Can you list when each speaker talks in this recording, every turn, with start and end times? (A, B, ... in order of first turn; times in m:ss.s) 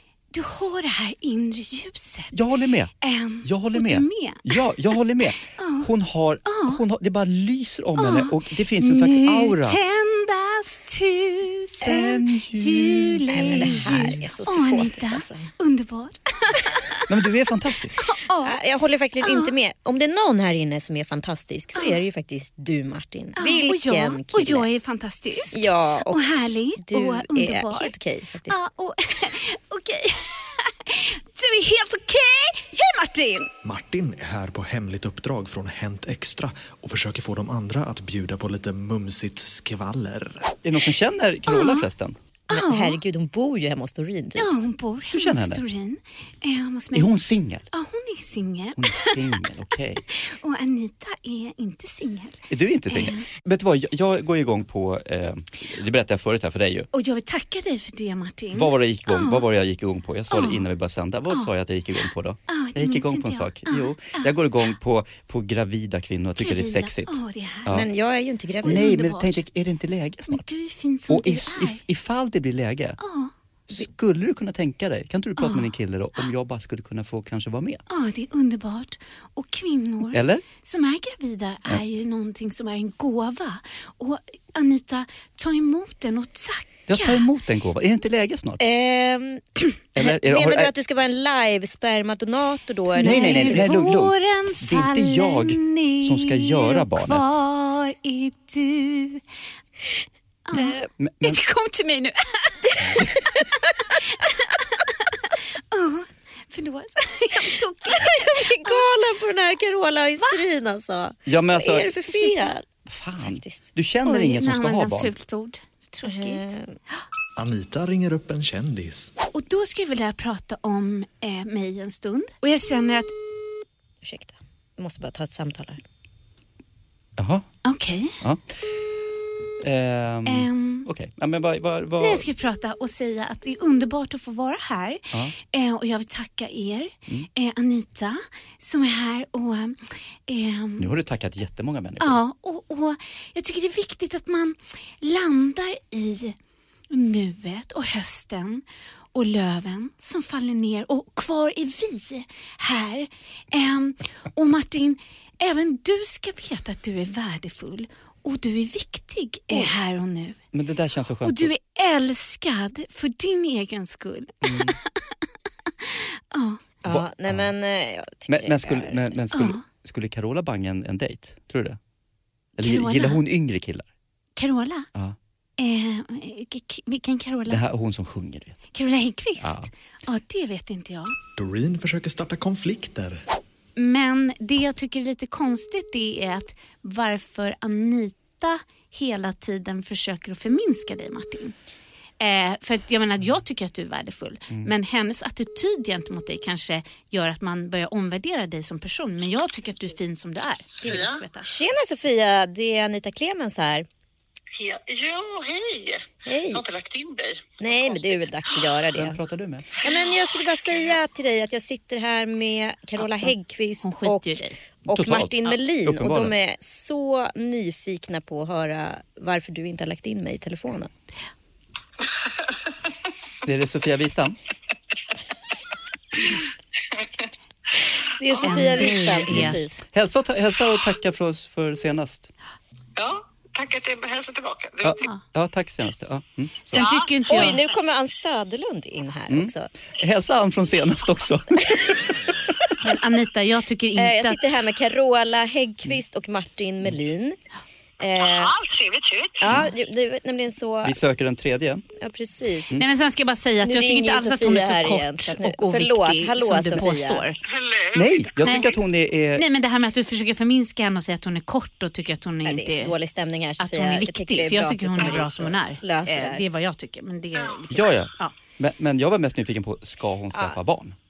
0:00.3-0:02.3 A
0:02.3-0:02.9 B
0:03.0-0:04.8 A
0:03.4-0:09.8 B
0:05.6-0:05.9 A
0:06.5-0:06.8 A
0:08.0-0:17.0 A
0:11.8-0:14.2 B
0:13.3-0:15.5 C
0:17.1-0:18.0 B
0:18.0-0:18.6 A
0:18.4-0:24.7 C
0:19.2-0:19.5 A
0:23.4-0:27.9 A
0:25.5-0:28.6 C
0:28.5-0:33.5 A
0:33.6-0:40.5 D
0:40.6-0:42.2 B
0:41.5-0:41.9 A
0:42.5-0:43.0 A
0:42.5-0:44.5 C
0:44.4-0:47.1 A
0:45.1-0:45.6 B
0:46.9-0:47.7 B
0:47.7-0:49.3 A
0:48.8-0:50.1 B
0:50.1-0:53.2 A
0:52.5-0:56.9 B
0:56.9-0:59.5 A
0:58.5-1:07.9 B
1:00.3-1:00.6 A
1:02.5-1:04.4 A
1:06.4-1:07.8 A
1:07.7-1:09.0 C
1:08.6-1:09.4 A
1:08.6-1:10.5 B
1:10.3-1:11.8 A
1:11.1-1:13.0 B
1:13.0-1:13.3 A
1:13.7-1:17.8 B
1:15.4-1:15.7 A
1:17.9-1:27.3 A
1:20.1-1:20.5 B
1:26.9-1:28.6 B
1:28.6-1:33.7 C
1:30.0-1:30.7 B
1:33.0-1:39.2 A
1:33.0-1:37.4 B
1:40.5-1:43.1 A
1:40.5-1:40.8 C
1:41.0-1:41.4 B
1:42.9-1:43.2 B
1:44.1-1:48.9 A
1:47.8-1:52.7 C
1:51.3-1:52.0 B
1:52.1-1:52.5 A
1:52.9-1:55.1 B
1:53.2-1:53.6 C
1:54.0-1:57.0 A
1:56.0-1:56.8 C
1:57.4-1:59.1 D
1:59.3-2:03.1 A
2:04.0-2:05.8 C
2:07.2-2:07.4 B
2:07.7-2:08.2 A
2:09.6-2:12.3 B
2:10.3-2:10.9 A
2:12.0-2:20.9 A
2:20.8-2:22.2 B
2:22.0-2:26.4 A
2:26.9-2:40.4 A
2:40.5-2:41.5 B
2:41.2-2:44.8 A
2:44.4-2:44.8 B
2:45.8-2:46.6 A
2:46.8-2:49.2 C
2:46.9-2:47.5 B
2:48.3-2:51.8 B
2:49.3-2:49.6 A
2:52.6-2:53.9 B
2:52.6-2:53.2 A
2:54.4-2:54.9 A
2:55.6-2:57.6 A
2:57.5-2:58.6 B
2:58.7-3:01.2 A
2:59.4-2:59.7 B
3:01.4-3:03.2 D
3:03.8-3:11.6 A
3:12.2-3:21.5 A
3:20.7-3:21.2 E
3:21.4-3:23.9 C
3:24.5-3:28.3 E
3:26.2-3:26.6 C
3:27.6-3:29.2 C
3:29.0-3:29.7 B
3:29.8-3:40.9 C
3:33.8-3:34.6 A
3:34.9-3:36.3 B
3:43.4-3:44.4 B
3:48.2-3:49.8 C
3:48.3-3:48.9 E
3:48.4-3:49.8 A
3:49.3-3:52.3 B
3:53.0-3:55.1 E
3:54.8-3:56.8 B
3:56.7-3:57.7 A
3:56.8-3:57.3 E
3:57.3-3:59.7 C
3:59.3-4:02.3 B
4:02.8-4:04.6 A
4:04.0-4:07.4 C
4:08.0-4:08.5 C
4:08.2-4:09.5 E
4:09.4-4:11.0 C
4:10.8-4:11.8 B
4:12.0-4:12.8 C
4:12.8-4:17.4 A
4:13.6-4:17.3 C
4:17.4-4:18.8 E
4:17.9-4:19.4 B
4:18.4-4:18.7 A
4:19.4-4:23.0 A
4:22.4-4:26.4 C
4:23.6-4:28.4 A
4:27.4-4:27.6 E
4:27.7-4:31.0 B